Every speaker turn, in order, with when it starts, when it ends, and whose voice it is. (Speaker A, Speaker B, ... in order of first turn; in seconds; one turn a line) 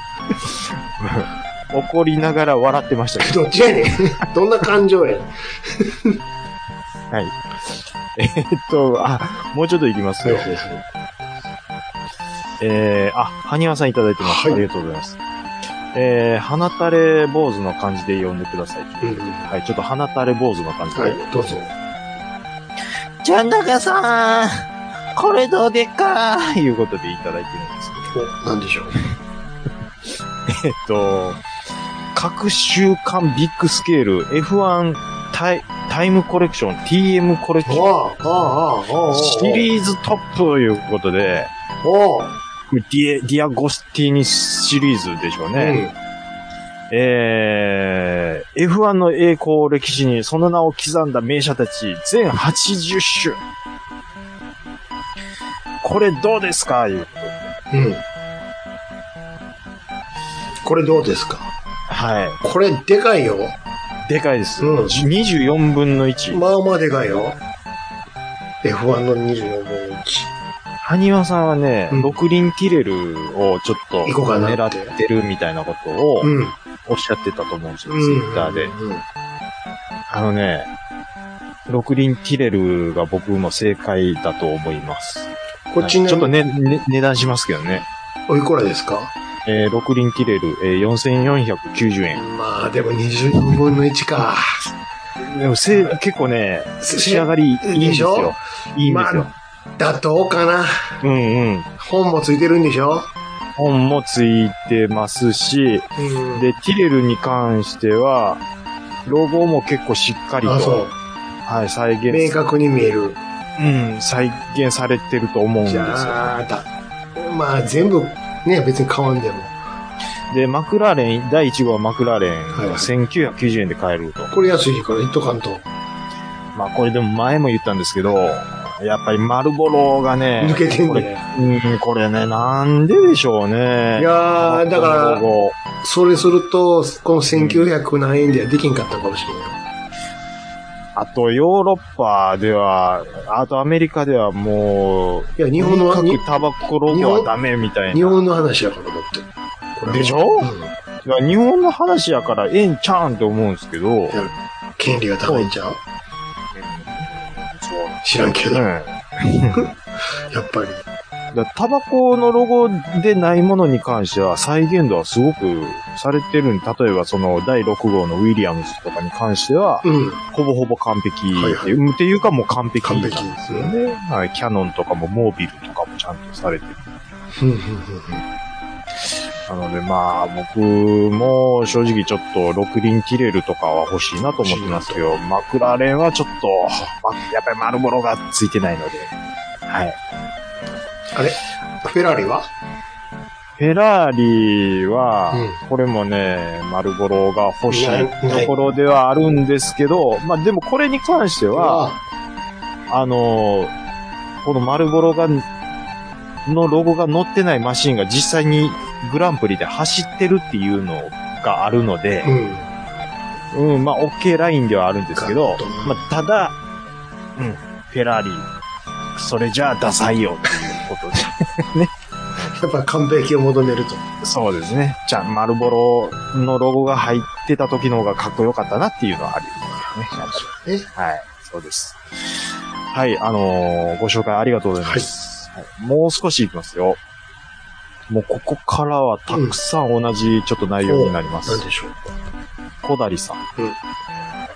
Speaker A: 0.5-3.5
Speaker B: 3.2-6.2
Speaker A: 7.1-10.7
Speaker B: 10.2-10.8
Speaker A: 12.6-15.2
Speaker B: 14.2-14.7
Speaker A: 15.9-21.3
Speaker B: 19.0-19.5
Speaker B: 20.9-21.7
Speaker A: 23.2-28.2
Speaker B: 28.1-28.9
Speaker A: 30.5-31.4
Speaker A: 32.1-37.9
Speaker B: 37.6-39.6
Speaker A: 39.1-41.5
Speaker B: 41.8-42.3
Speaker A: 42.7-45.8
Speaker B: 45.5-45.9
Speaker A: 46.9-53.4
Speaker A: 55.8-57.5
Speaker B: 57.7-58.0
Speaker B: 60.6-61.5
Speaker A: 61.9-62.4
Speaker B: 62.4-63.6
Speaker A: 64.1-66.4
Speaker B: 64.6-65.0
Speaker B: 66.3-67.4
Speaker B: 68.6-70.3
Speaker A: 70.8-76.3
Speaker B: 71.9-72.2
Speaker B: 74.0-75.0
Speaker B: 76.2-76.5
Speaker A: 76.9-78.7
Speaker B: 77.9-79.0
Speaker A: 80.1-80.7
Speaker A: 81.7-87.9
Speaker B: 85.7-86.3
Speaker B: 88.3-89.1
Speaker A: 89.4-92.2
Speaker B: 92.1-94.4
Speaker A: 95.2-99.3
Speaker B: 96.8-100.8
Speaker A: 101.0-101.7
Speaker B: 101.8-103.1
Speaker A: 103.5-108.4
Speaker B: 106.0-106.5
Speaker A: 109.0-110.8
Speaker B: 110.4-110.9
Speaker A: 111.5-112.4
Speaker B: 112.1-113.2
Speaker A: 113.6-116.3
Speaker B: 115.7-119.5
Speaker A: 120.3-124.3
Speaker B: 122.5-122.9
Speaker B: 124.3-125.7
Speaker A: 126.5-135.6
Speaker B: 130.4-131.2
Speaker B: 133.9-135.3
Speaker B: 135.8-139.6
Speaker A: 137.3-137.7
Speaker A: 140.9-148.2
Speaker B: 145.4-146.2
Speaker B: 146.9-147.3
Speaker B: 147.9-150.7
Speaker A: 149.9-150.5
Speaker A: 151.0-154.2
Speaker B: 154.1-155.8
Speaker A: 155.2-155.5
Speaker A: 156.6-158.0
Speaker B: 158.0-158.7
Speaker A: 158.5-159.7
Speaker B: 160.3-160.8
Speaker A: 161.3-177.0
Speaker B: 169.8-170.2
Speaker B: 171.3-171.7
Speaker B: 172.8-173.7
Speaker B: 177.4-178.2
Speaker A: 179.5-189.1
Speaker B: 184.4-185.1
Speaker A: 189.7-190.0
Speaker B: 191.1-192.5
Speaker A: 193.6-201.9
Speaker B: 195.3-195.6
Speaker B: 197.7-198.5
Speaker B: 201.5-202.0
Speaker A: 202.9-203.7
Speaker A: 204.4-205.4
Speaker A: 206.4-212.3
Speaker B: 212.2-212.7
Speaker A: 213.5-216.6
Speaker B: 215.2-216.1
Speaker A: 217.4-218.5
Speaker A: 219.1-222.6
Speaker B: 222.5-224.0
Speaker A: 224.2-232.0
Speaker B: 230.1-230.9
Speaker A: 232.9-237.0
Speaker A: 238.1-241.6
Speaker B: 239.3-239.6
Speaker B: 240.8-242.0
Speaker A: 242.8-243.4